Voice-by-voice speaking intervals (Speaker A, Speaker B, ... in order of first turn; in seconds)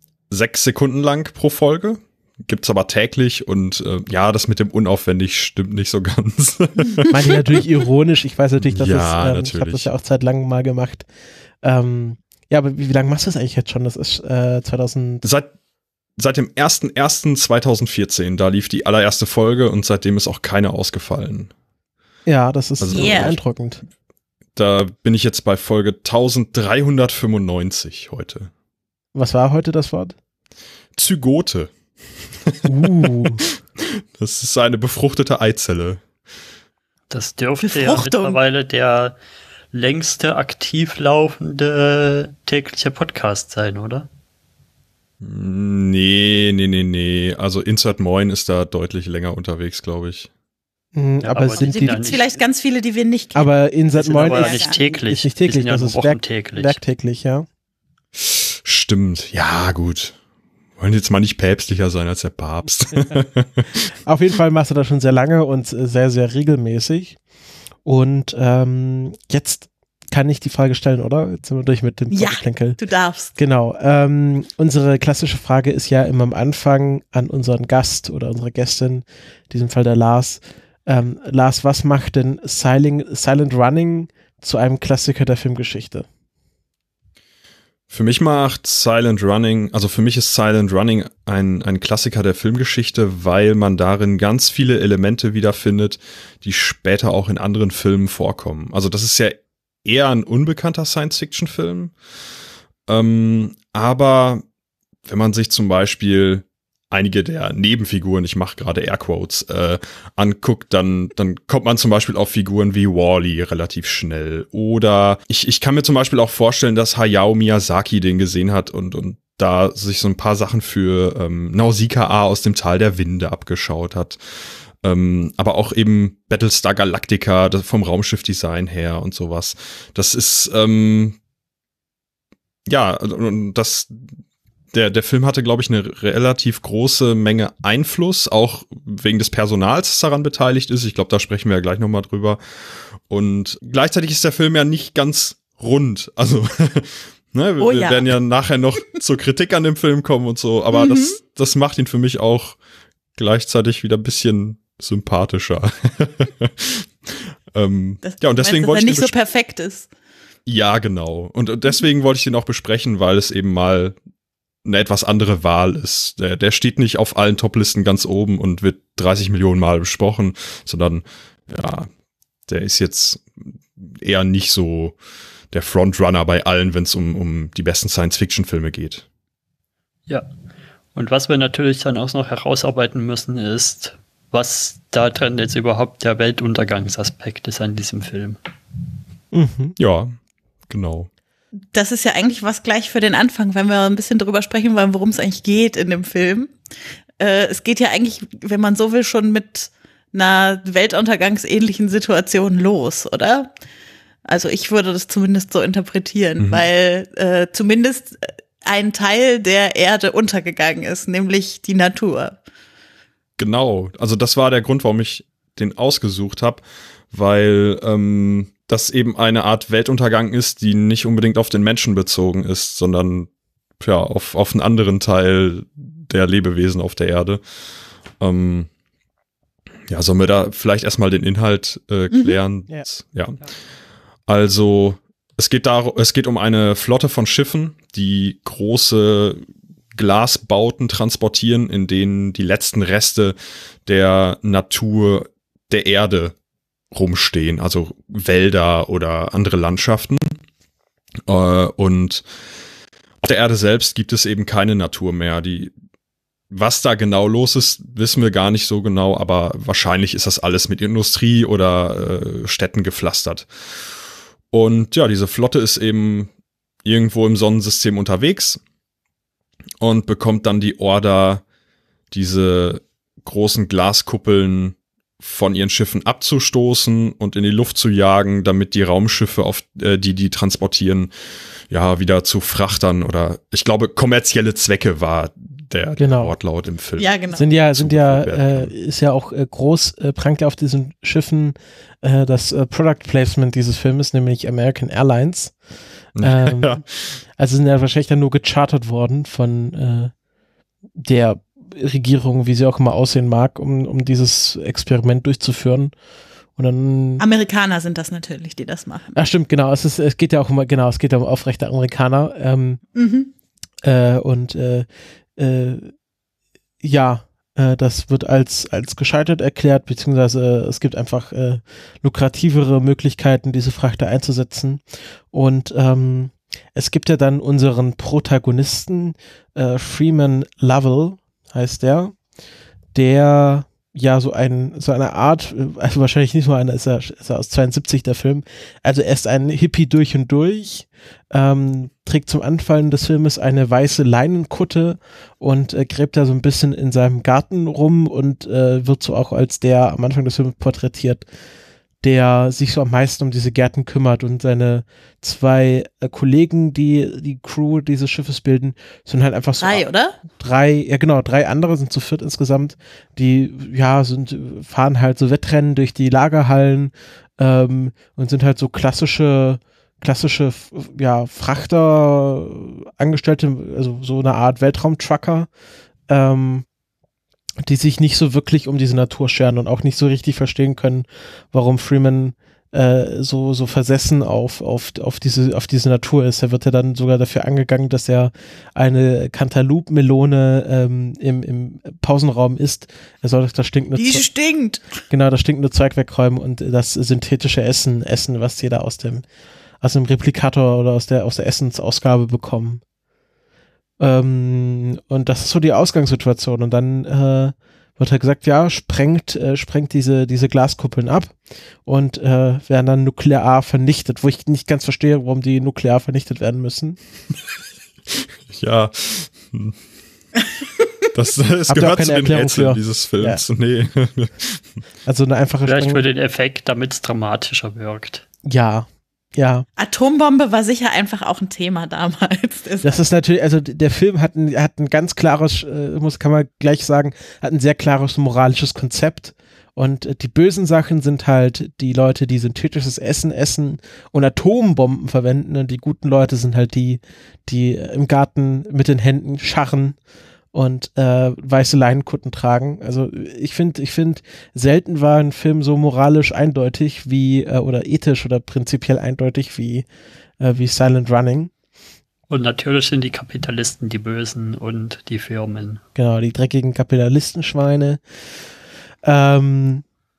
Speaker A: 0.3-7.4, 8.6-9.9, 15.2-15.5, 16.2-21.5, 22.8-23.4, 24.6-28.5, 30.9-31.8, 32.4-36.0, 45.2-50.3, 58.2-60.2, 60.8-63.9, 87.9-101.9, 102.9-104.4, 105.1-124.2, 124.8-131.2, 132.7-134.0, 134.7-142.4, 142.9-152.6, 153.2-159.1, 160.4-163.9, 164.6-171.9, 172.5-174.9, 175.5-179.0, 189.8-190.2, 190.7-191.1, 206.4-206.7, 213.4-227.4, 228.2-228.7, 229.9-233.4, 234.3-246.3, 246.9-250.4, 251.3-252.2, 253.2-255.7, 256.5-263.5, 264.5-266.3, 266.8-268.6, 269.8-271.4, 272.1-281.1, 281.7-288.7, 296.2-296.9, 418.1-419.8, 421.1-424.7
Speaker B: 7.1-11.1, 11.6-15.2, 22.2-23.8, 29.1-30.1, 32.7-33.4, 50.9-52.2, 53.4-57.5, 64.0-67.2, 67.8-72.8, 73.4-86.1, 189.3-189.8, 286.0-286.3, 287.3-295.6, 296.2-296.8, 297.4-300.1, 301.0-305.9, 306.6-307.2, 309.1-312.8, 313.8-314.9, 315.4-315.9, 316.8-332.1, 332.9-351.2, 352.0-375.5, 376.1-376.7, 377.6-394.3, 395.1-399.2, 399.8-402.8, 404.0-417.0, 421.7-423.4, 425.1-426.0, 428.4-429.7, 432.8-450.0, 450.5-459.9, 460.4-461.5, 465.9-468.0, 469.0-469.8
Speaker C: 22.9-23.3, 37.6-38.4, 51.6-54.9, 72.1-73.4, 147.6-148.1, 150.7-151.2, 158.0-159.9, 191.7-196.5, 197.2-203.5, 204.3-212.4, 287.0-287.5, 307.2-309.1, 312.9-313.3, 359.6-360.2, 393.9-394.8, 429.8-432.9
Speaker D: 37.1-39.1, 39.7-44.1, 51.2-52.3, 54.0-56.8, 180.9-188.4, 425.6-428.2, 462.3-465.8